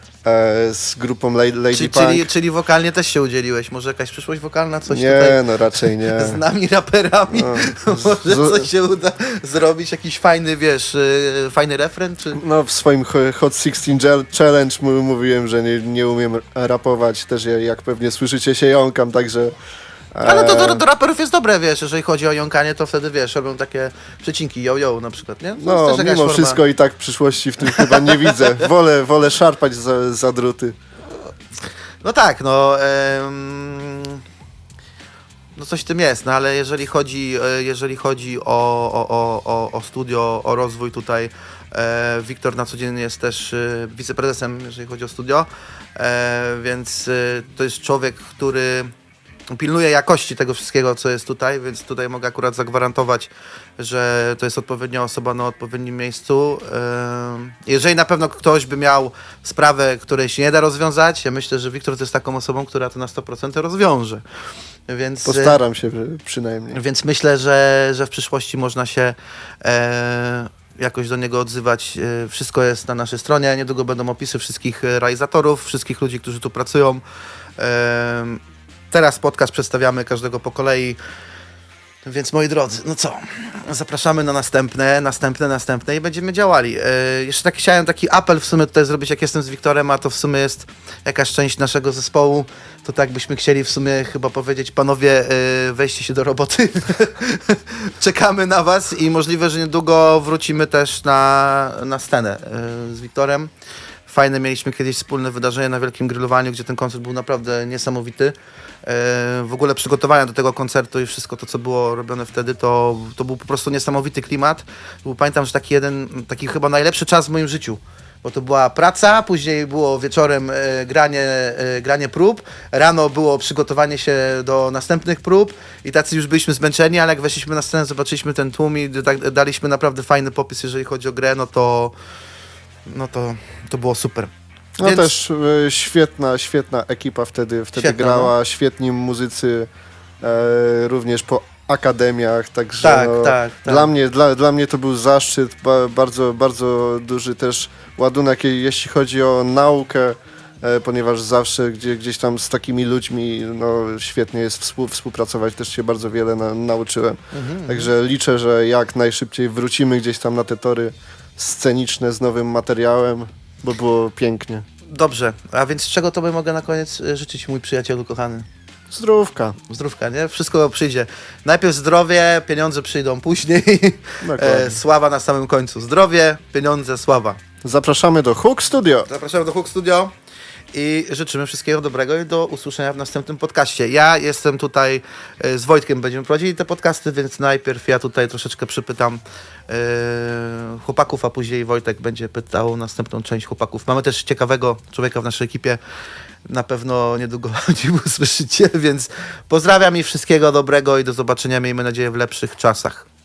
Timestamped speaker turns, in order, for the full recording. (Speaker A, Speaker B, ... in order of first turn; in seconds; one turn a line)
Speaker A: 0.2-2.3
Speaker B: 1.7-12.4
Speaker A: 4.9-6.4
Speaker A: 7.3-8.7
Speaker A: 12.3-19.5
Speaker A: 20.1-20.8
Speaker B: 20.2-26.6
Speaker A: 25.6-30.7
Speaker B: 27.7-28.6
Speaker B: 32.0-34.2
Speaker B: 35.5-48.9
Speaker B: 49.5-64.2
Speaker B: 64.9-65.6
Speaker A: 65.2-66.8
Speaker B: 66.7-77.0
Speaker B: 77.6-81.0
Speaker B: 82.0-103.5
Speaker B: 104.1-131.9
Speaker B: 132.8-134.3
Speaker A: 134.8-139.7
Speaker B: 134.8-135.1
Speaker B: 137.8-138.3
Speaker A: 140.2-164.6
Speaker B: 142.8-143.9
Speaker B: 157.3-157.9
Speaker B: 164.9-168.4
Speaker A: 168.9-169.6
Speaker B: 169.7-177.4
Speaker A: 174.2-174.8
Speaker A: 177.6-179.1
Speaker B: 179.1-180.1
Speaker B: 180.7-195.8
Speaker B: 196.5-203.1